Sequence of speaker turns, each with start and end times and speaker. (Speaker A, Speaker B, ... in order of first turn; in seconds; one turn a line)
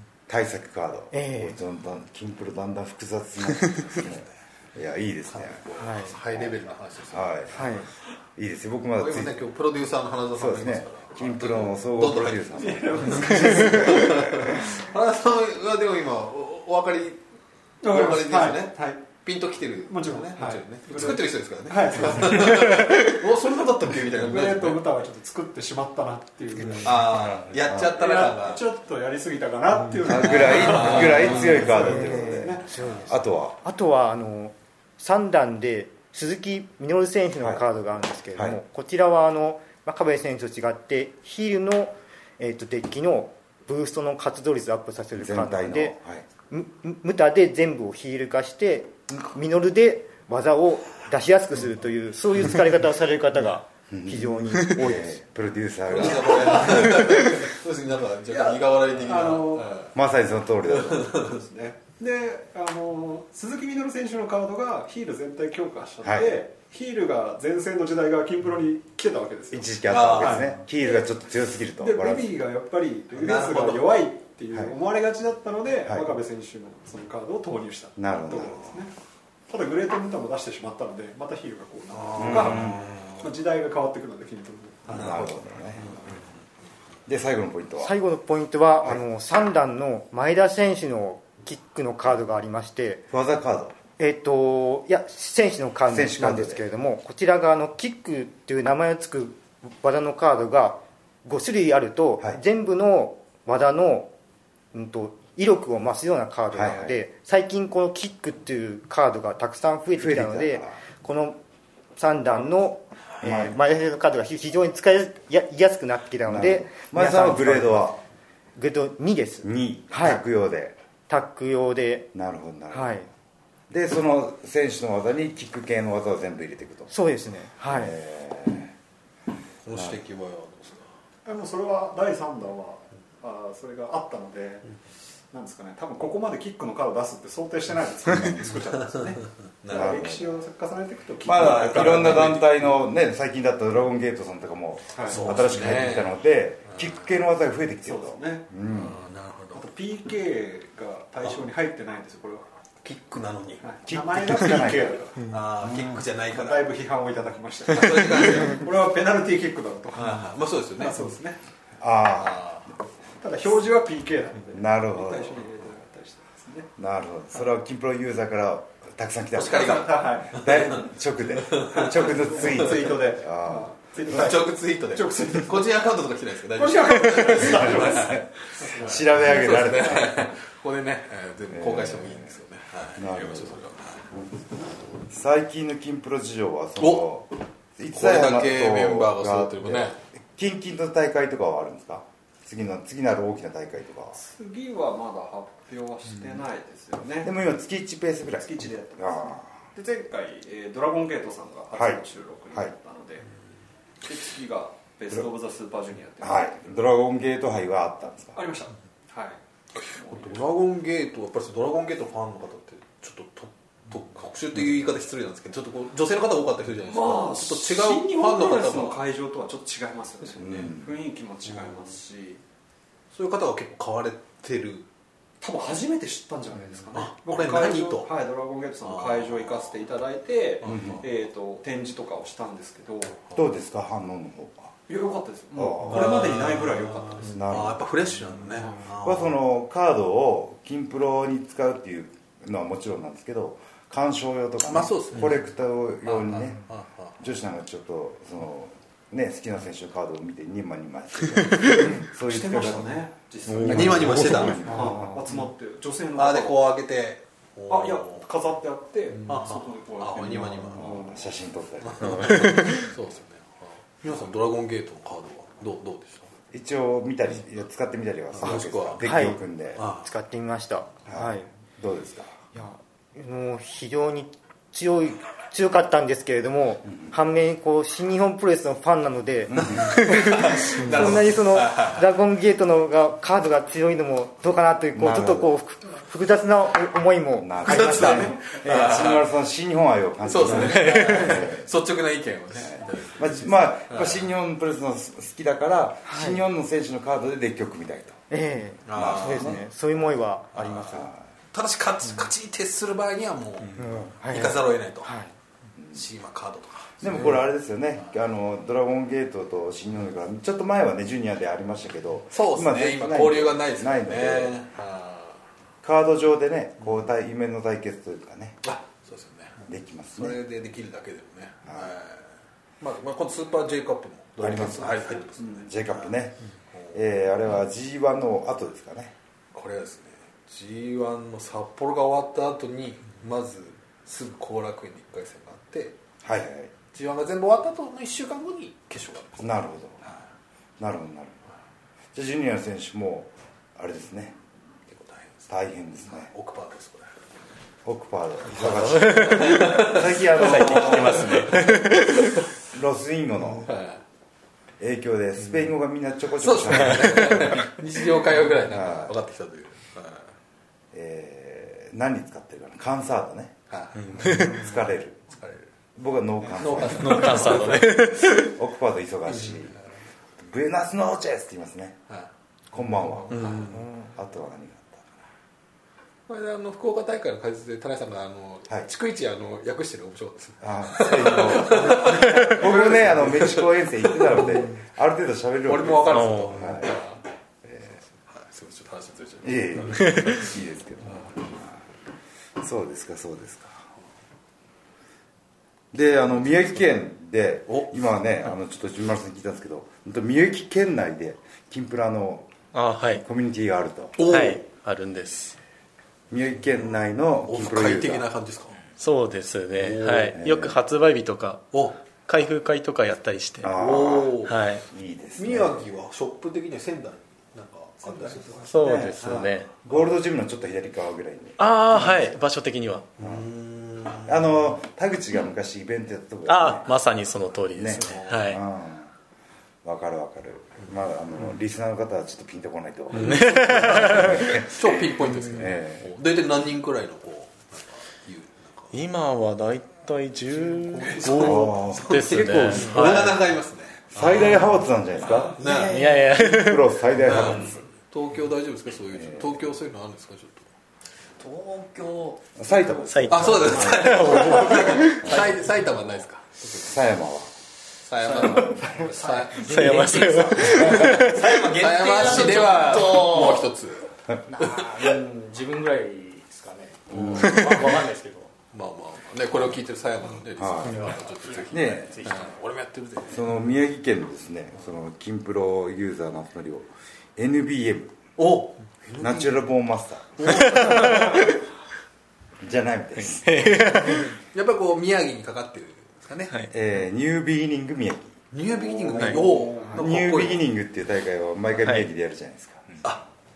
Speaker A: 0.3-5.6
Speaker B: 1.1-1.6
Speaker C: 5.3-7.8
Speaker B: 5.8-6.1
Speaker A: 7.1-7.7
Speaker B: 7.5-7.9
Speaker A: 8.4-9.4
Speaker C: 9.0-17.2
Speaker A: 10.3-14.5
Speaker D: 12.6-14.5
Speaker D: 17.8-19.0
Speaker C: 17.8-24.8
Speaker D: 19.9-22.9
Speaker D: 24.2-27.4
Speaker C: 26.8-28.6
Speaker A: 27.0-27.9
Speaker D: 27.9-32.7
Speaker A: 30.0-33.6
Speaker C: 30.1-31.7
Speaker B: 31.8-46.0
Speaker A: 45.1-46.3
Speaker B: 46.5-55.2
Speaker A: 53.9-56.8
Speaker C: 55.9-59.9
Speaker D: 58.3-59.9
Speaker A: 59.9-61.2
Speaker C: 60.9-61.3
Speaker D: 61.2-70.6
Speaker A: 66.0-66.4
Speaker A: 69.5-72.3
Speaker C: 69.9-70.5
Speaker D: 71.8-78.9
Speaker C: 73.1-74.0
Speaker A: 78.0-78.8
Speaker D: 79.5-85.4
Speaker C: 81.9-83.3
Speaker A: 82.2-82.9
Speaker A: 84.9-86.0
Speaker C: 84.9-86.2
Speaker A: 87.1-88.0
Speaker B: 87.8-93.0
Speaker A: 93.1-93.8
Speaker B: 94.0-104.1
Speaker A: 95.9-96.6
Speaker B: 104.7-111.4
Speaker A: 106.5-107.0
Speaker A: 110.0-110.8
Speaker B: 112.0-117.9
Speaker A: 113.2-113.6
Speaker A: 116.3-118.0
Speaker B: 118.6-120.2
Speaker A: 119.4-120.8
Speaker B: 121.1-122.1
Speaker A: 122.1-123.1
Speaker B: 122.7-123.1
Speaker A: 123.7-126.9
Speaker B: 126.9-128.0
Speaker A: 127.6-128.7
Speaker C: 129.6-130.9
Speaker A: 129.8-130.0
Speaker D: 131.2-134.7
Speaker D: 135.3-142.3
Speaker C: 139.6-140.1
Speaker A: 139.7-140.3
Speaker A: 141.2-149.0
Speaker C: 141.3-142.8
Speaker D: 144.9-145.4
Speaker C: 145.1-146.1
Speaker D: 147.8-148.5
Speaker C: 148.7-149.7
Speaker D: 149.5-152.4
Speaker C: 152.8-153.7
Speaker D: 153.6-160.2
Speaker A: 153.9-155.0
Speaker C: 155.3-156.7
Speaker C: 157.7-158.7
Speaker C: 159.9-161.0
Speaker D: 160.8-161.4
Speaker A: 161.8-162.6
Speaker C: 162.2-162.7
Speaker D: 163.2-166.7
Speaker A: 164.5-165.4
Speaker A: 166.8-174.2
Speaker C: 169.3-170.8
Speaker D: 169.6-170.6
Speaker C: 171.5-172.9
Speaker D: 171.8-175.8
Speaker C: 174.1-184.1
Speaker D: 176.5-179.6
Speaker A: 177.8-178.3
Speaker A: 178.8-180.3
Speaker A: 181.5-182.3
Speaker A: 183.0-183.6
Speaker A: 185.1-194.2
Speaker C: 186.8-187.2
Speaker C: 187.9-190.0
Speaker D: 194.2-197.3
Speaker A: 197.2-199.6
Speaker D: 198.4-203.3
Speaker A: 201.7-202.7
Speaker D: 204.0-206.7
Speaker A: 206.2-208.4
Speaker D: 208.3-210.4
Speaker C: 209.8-219.0
Speaker D: 216.9-222.4
Speaker A: 220.4-220.9
Speaker C: 220.4-220.7
Speaker C: 223.1-224.9
Speaker D: 225.4-233.2
Speaker C: 226.9-228.1
Speaker C: 228.8-229.7
Speaker C: 230.6-231.1
Speaker A: 230.7-231.0
Speaker A: 233.3-234.7
Speaker D: 234.9-237.5
Speaker A: 235.5-236.4
Speaker C: 235.9-239.4
Speaker A: 237.2-237.8
Speaker A: 239.0-246.6
Speaker C: 244.7-245.4
Speaker C: 246.0-247.2
Speaker A: 247.2-255.3
Speaker D: 252.2-256.7
Speaker C: 253.7-254.9
Speaker C: 256.1-258.2
Speaker D: 257.7-261.2
Speaker C: 259.3-260.9
Speaker A: 260.8-262.4
Speaker C: 261.8-266.3
Speaker E: 262.2-262.9
Speaker A: 266.5-269.9
Speaker C: 268.4-269.2
Speaker B: 269.0-271.5
Speaker C: 269.8-270.1
Speaker A: 271.1-272.3
Speaker B: 272.5-288.2
Speaker A: 279.5-280.0
Speaker C: 279.8-282.0
Speaker A: 284.9-285.5
Speaker A: 287.4-291.7
Speaker C: 287.6-289.3
Speaker D: 287.7-288.6
Speaker C: 290.3-294.2
Speaker E: 290.8-291.1
Speaker A: 292.6-298.2
Speaker B: 296.1-296.4
Speaker B: 298.3-301.1
Speaker C: 298.9-299.6
Speaker A: 298.9-299.6
Speaker A: 300.8-301.2
Speaker C: 301.5-305.1
Speaker B: 303.8-305.3
Speaker C: 305.9-307.4
Speaker A: 307.0-314.6
Speaker C: 312.3-315.4
Speaker A: 315.8-318.6
Speaker C: 318.6-319.6
Speaker A: 319.6-320.4
Speaker C: 320.2-322.3
Speaker A: 321.7-321.9
Speaker C: 322.8-326.1
Speaker A: 324.4-326.4
Speaker C: 326.7-327.0
Speaker A: 326.9-329.1
Speaker C: 329.5-336.0
Speaker A: 336.2-336.7
Speaker C: 336.9-340.2
Speaker A: 339.4-340.1
Speaker A: 340.8-341.4
Speaker A: 342.1-344.4
Speaker C: 344.9-345.3
Speaker A: 345.5-346.3
Speaker C: 346.1-347.1
Speaker A: 347.9-352.0
Speaker E: 348.6-352.3
Speaker C: 349.3-351.9
Speaker A: 352.7-353.7
Speaker C: 353.6-354.0
Speaker A: 354.8-357.7
Speaker C: 356.4-360.3
Speaker A: 358.7-359.1
Speaker A: 360.9-363.6
Speaker C: 363.7-364.4
Speaker E: 364.0-364.6
Speaker A: 364.2-365.2
Speaker C: 365.3-365.7
Speaker A: 366.0-369.8
Speaker C: 366.5-367.9
Speaker E: 367.0-368.5
Speaker C: 369.4-369.6
Speaker A: 370.4-372.0
Speaker A: 372.7-375.2
Speaker C: 373.2-373.8
Speaker E: 373.4-373.7
Speaker C: 376.3-384.7
Speaker A: 380.6-387.0
Speaker C: 385.6-387.2
Speaker E: 386.1-386.8
Speaker A: 387.6-388.0
Speaker C: 388.2-390.4
Speaker A: 389.4-391.8
Speaker A: 392.6-393.9
Speaker A: 395.9-402.5
Speaker E: 402.7-403.2
Speaker A: 403.1-404.2
Speaker C: 404.2-404.7
Speaker E: 404.3-405.6
Speaker A: 406.3-408.3
Speaker C: 407.4-408.8
Speaker E: 409.0-413.8
Speaker C: 409.8-410.4
Speaker A: 410.4-410.8
Speaker C: 411.7-412.0
Speaker A: 413.6-414.4
Speaker C: 413.8-414.6
Speaker E: 414.4-414.8
Speaker A: 414.9-415.9
Speaker C: 415.4-419.5
Speaker E: 418.7-419.8
Speaker A: 418.7-422.1
Speaker E: 421.6-423.1
Speaker A: 423.2-423.5
Speaker C: 423.2-424.5
Speaker A: 424.2-426.9
Speaker E: 426.5-428.6
Speaker A: 427.8-429.1
Speaker C: 428.0-428.5
Speaker A: 429.8-436.1
Speaker C: 433.2-438.9
Speaker E: 433.2-434.6
Speaker E: 438.9-443.4
Speaker C: 440.6-444.7
Speaker A: 441.4-443.4
Speaker A: 444.1-445.6
Speaker C: 445.5-446.2
Speaker F: 445.6-446.1
Speaker E: 445.9-447.0
Speaker A: 446.2-447.8
Speaker C: 447.2-450.7
Speaker A: 449.2-449.5
Speaker F: 451.4-452.5
Speaker A: 452.6-454.3
Speaker E: 453.1-455.4
Speaker C: 453.3-456.5
Speaker A: 455.2-455.6
Speaker A: 456.8-457.5
Speaker C: 458.1-464.1
Speaker F: 458.2-463.7
Speaker E: 459.6-461.4
Speaker F: 464.5-468.5
Speaker C: 464.6-465.1
Speaker C: 467.1-467.9
Speaker A: 467.1-467.4
Speaker C: 468.7-473.5
Speaker A: 470.6-471.0
Speaker F: 470.9-472.5
Speaker A: 471.7-472.1
Speaker A: 473.3-478.1
Speaker C: 478.4-479.6
Speaker A: 479.2-481.2
Speaker C: 480.4-481.4
Speaker E: 480.5-481.6
Speaker A: 482.6-484.3
Speaker E: 483.2-484.4
Speaker C: 484.5-486.6
Speaker A: 486.7-488.4
Speaker C: 488.5-490.7
Speaker D: 488.7-490.0
Speaker A: 489.9-493.1